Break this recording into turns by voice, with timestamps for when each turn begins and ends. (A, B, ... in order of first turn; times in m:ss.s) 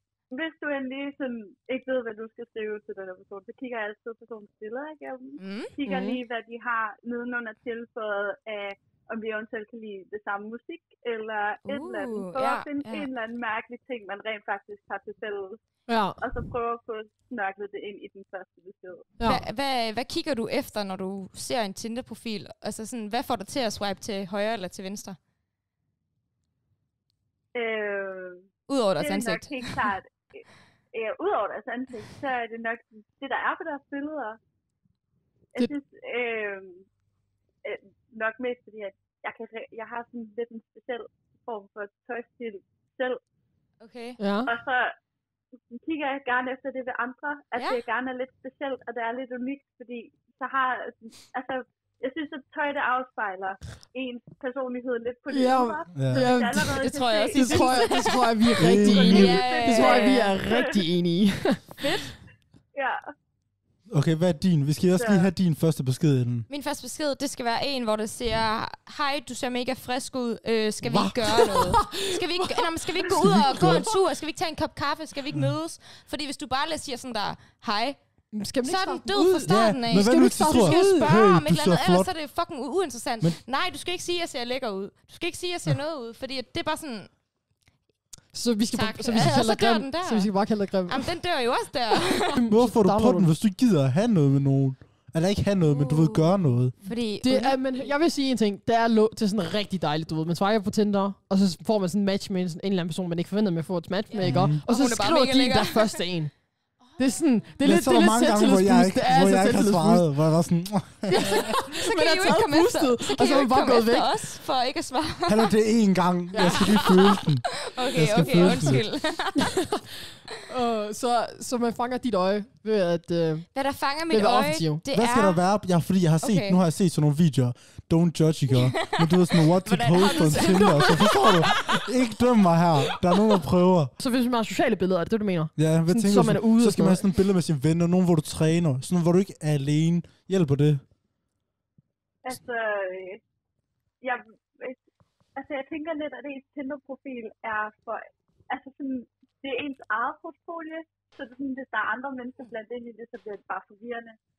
0:00.3-0:15.6 A
0:05.4-0:06.2 B
0:11.7-0:13.1 B
0:15.9-0:16.2 C
0:16.2-0:19.1 A
0:19.2-0:19.4 C
0:19.2-0:25.2 B
0:27.5-0:34.4 A
0:28.7-0:29.8 B
0:35.5-0:36.9 A
0:37.6-0:43.2 A
0:43.8-0:44.2 B
0:44.2-0:44.5 C
0:44.5-0:45.0 A
0:45.7-0:58.2 A
0:55.3-1:02.0 C
0:56.0-0:56.3 D
0:56.8-0:58.3 B
0:58.6-0:59.4 D
0:58.8-1:00.8 A
0:58.9-1:00.3 B
1:01.8-1:02.1 B
1:02.7-1:03.0 A
1:03.9-1:06.5 D
1:05.0-1:05.3 A
1:06.5-1:18.0 B
1:10.8-1:11.2 D
1:11.3-1:13.1 C
1:13.1-1:13.9 D
1:18.3-1:21.1 C
1:18.6-1:27.1 B
1:19.5-1:22.1 D
1:28.3-1:31.1 C
1:28.7-1:30.3 B
1:30.9-1:32.4 B
1:32.1-1:33.3 C
1:32.5-1:36.8 D
1:35.7-1:37.6 B
1:37.2-1:46.3 C
1:44.1-1:46.0 B
1:44.2-1:44.6 D
1:47.0-1:50.1 C
1:47.6-1:51.5 D
1:51.1-1:54.2 C
1:51.2-1:55.5 B
1:55.3-1:58.8 D
1:56.3-1:56.7 C
1:56.4-1:59.5 B
1:59.4-1:59.9 C
2:00.4-2:03.5 C
2:03.5-2:05.4 B
2:04.1-2:04.8 C
2:04.9-2:13.9 D
2:06.2-2:06.6 B
2:08.5-2:11.9 B
2:14.0-2:17.0 C
2:15.6-2:20.8 D
2:22.2-2:23.2 A
2:24.0-2:24.8 A
2:25.4-2:34.2 A